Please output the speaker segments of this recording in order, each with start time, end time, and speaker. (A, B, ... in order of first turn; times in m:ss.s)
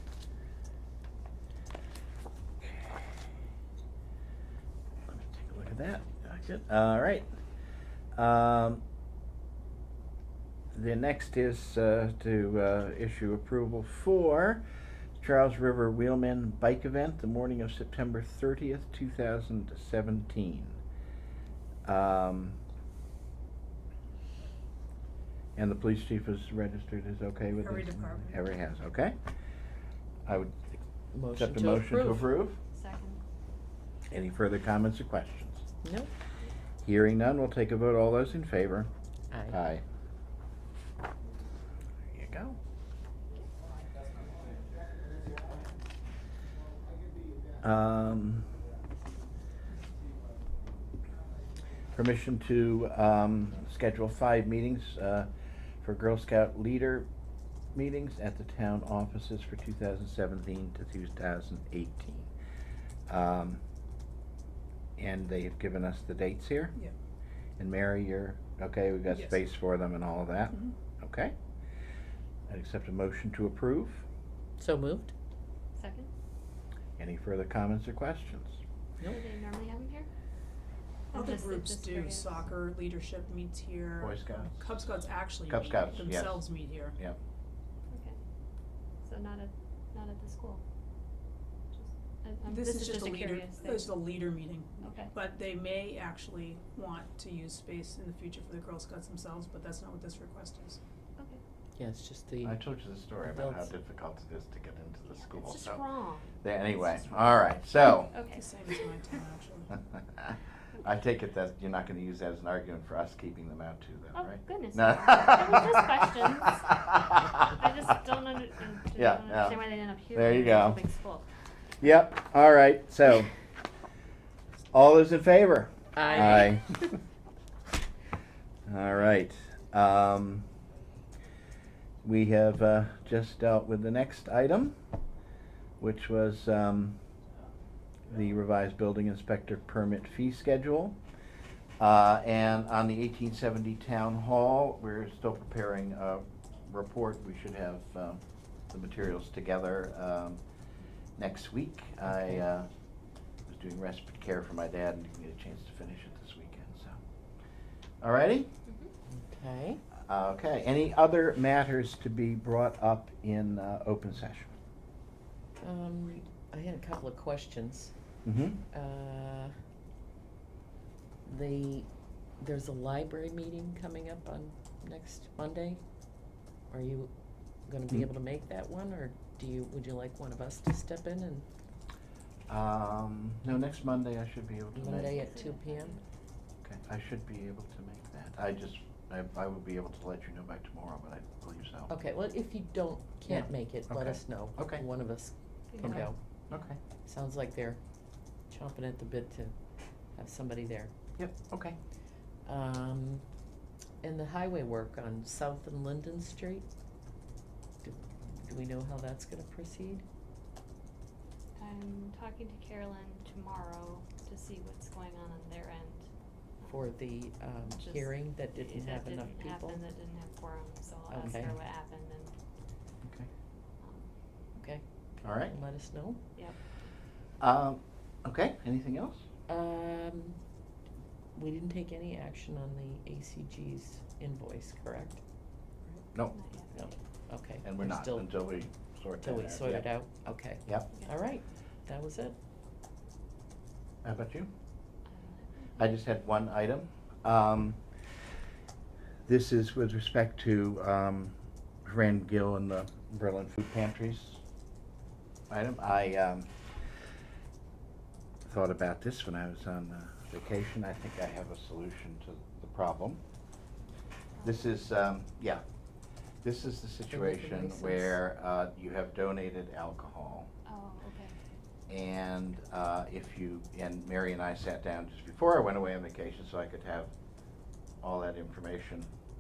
0:02.6-0:03.3 A
0:05.1-0:07.3 A
0:08.2-0:08.8 A
0:10.7-0:14.6 A
0:15.2-0:20.8 A
0:21.9-0:22.6 A
0:25.6-0:29.2 A
0:27.6-0:28.4 B
0:30.3-0:30.8 A
0:31.1-0:32.3 C
0:31.3-0:32.6 A
0:32.7-0:33.2 D
0:34.1-0:35.7 A
0:35.8-0:36.1 C
0:36.8-0:38.9 A
0:39.3-0:39.6 C
0:39.5-0:39.8 A
0:42.1-0:42.6 A
0:47.6-0:48.6 A
0:51.9-0:55.3 A
0:55.8-0:57.1 A
0:57.7-1:02.3 A
1:03.1-1:03.6 A
1:05.0-1:06.8 A
1:07.6-1:11.3 A
1:09.1-1:09.4 B
1:10.5-1:10.8 B
1:12.5-1:14.0 A
1:14.6-1:15.1 C
1:15.8-1:16.1 D
1:17.0-1:18.6 A
1:19.1-1:20.1 D
1:21.1-1:22.5 D
1:21.1-1:27.0 B
1:24.0-1:24.8 A
1:25.5-1:27.2 A
1:27.9-1:28.2 D
1:29.0-1:30.6 D
1:31.7-1:33.9 D
1:32.5-1:40.8 B
1:34.8-1:35.1 D
1:41.8-1:42.6 C
1:42.4-1:45.8 A
1:43.2-1:43.7 C
1:45.1-1:47.4 D
1:46.4-1:48.1 A
1:48.1-1:48.8 D
1:48.3-1:49.7 B
1:49.8-1:57.2 A
1:54.2-1:56.6 D
1:57.4-2:01.3 D
1:59.0-2:00.8 A
2:01.8-2:03.3 A
2:04.7-2:06.7 A
2:05.9-2:06.9 C
2:06.0-2:06.4 D
2:08.7-2:10.5 A
2:12.0-2:14.8 A
2:15.8-2:17.0 A
2:18.1-2:21.0 A
2:21.8-2:30.4 A
2:31.2-2:32.7 A
2:32.1-2:32.4 C
2:33.5-2:37.0 A
2:38.0-2:38.5 A
2:39.1-2:39.8 C
2:40.1-2:44.6 A
2:45.6-2:47.9 C
2:48.2-2:48.6 A
2:48.7-2:49.5 C
2:51.3-2:51.9 C
2:52.4-2:55.8 C
2:56.7-2:57.1 C
2:57.7-3:01.5 C
3:02.5-3:05.2 A
3:04.7-3:06.0 D
3:04.8-3:06.0 C
3:06.6-3:11.9 A
3:11.9-3:16.2 C
3:13.3-3:14.8 A
3:15.7-3:16.1 D
3:15.8-3:16.8 A
3:17.0-3:17.8 C
3:18.5-3:19.5 C
3:20.2-3:20.9 C
3:21.2-3:21.8 A
3:22.4-3:23.2 C
3:24.0-3:26.7 C
3:27.8-3:30.0 C
3:31.6-3:36.1 D
3:36.6-3:36.9 D
3:36.7-3:39.8 C
3:37.8-3:42.3 D
3:41.1-3:41.6 C
3:43.8-3:44.1 D
3:44.6-3:46.2 C
3:45.2-3:45.6 A
3:47.4-3:49.2 A
3:49.5-3:50.4 C
3:51.4-3:55.2 C
3:56.3-3:56.9 D
3:56.7-3:58.3 C
3:57.6-3:59.9 A
3:59.2-4:02.4 C
4:04.0-4:04.5 A
4:05.1-4:06.0 D
4:05.8-4:07.8 A
4:09.3-4:14.4 A
4:15.5-4:16.5 A
4:18.5-4:23.2 A
4:24.4-4:24.7 D
4:24.4-4:25.6 A
4:26.4-4:30.5 A
4:27.1-4:28.2 C
4:30.7-4:31.3 D
4:31.9-4:37.1 A
4:38.0-4:39.1 A